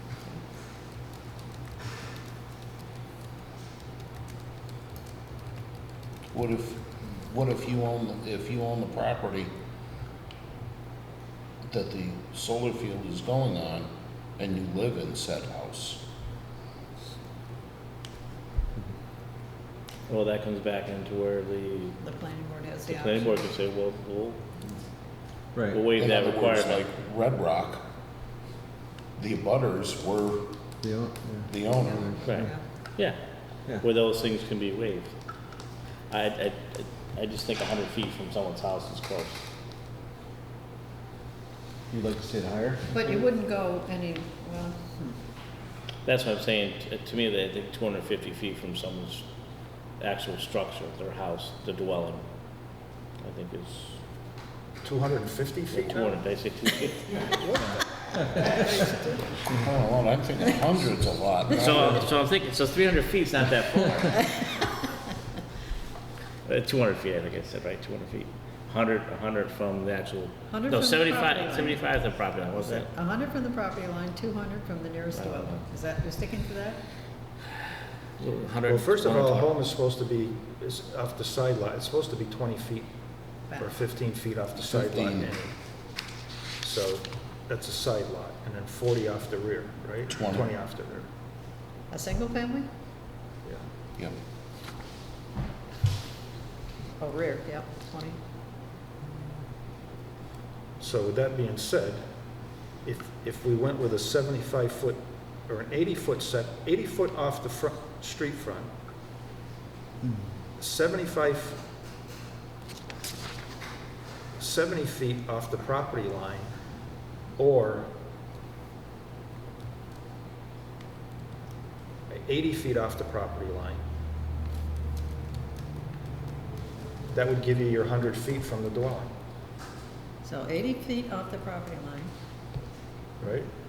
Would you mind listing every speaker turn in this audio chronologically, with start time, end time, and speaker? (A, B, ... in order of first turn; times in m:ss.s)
0:06.3-0:09.5 A
0:11.7-0:16.0 A
0:20.1-0:22.0 B
0:22.0-0:23.4 C
0:22.9-0:24.4 B
0:25.6-0:25.8 D
0:25.7-0:26.8 B
0:25.9-0:27.8 A
0:29.2-0:30.6 A
0:30.8-0:31.5 D
0:31.5-0:32.1 A
0:31.7-0:32.6 C
0:32.0-0:32.5 D
0:32.2-0:33.2 B
0:33.8-0:35.1 B
0:36.1-0:39.5 B
0:41.9-0:43.2 D
0:42.9-0:45.1 C
0:46.0-0:49.3 B
0:50.0-0:52.2 B
0:53.2-0:54.0 B
0:54.8-0:56.1 E
0:55.7-0:57.6 B
0:57.4-0:57.7 E
0:59.5-1:02.1 A
1:01.5-1:04.3 B
1:06.4-1:12.9 B
1:10.5-1:11.8 C
1:12.9-1:16.8 C
1:15.1-1:15.7 B
1:18.2-1:19.5 B
1:18.6-1:22.9 E
1:23.5-1:23.8 C
1:23.6-1:25.5 E
1:24.6-1:25.3 A
1:26.6-1:31.1 E
1:30.1-1:30.5 A
1:31.9-1:32.7 C
1:37.0-1:38.2 C
1:40.8-1:42.0 E
1:42.8-1:48.7 E
1:50.6-1:51.6 E
1:54.4-1:56.5 E
1:57.4-1:57.9 E
2:02.1-2:03.8 E
2:07.1-2:09.1 E
2:10.2-2:12.1 C
2:13.2-2:13.5 E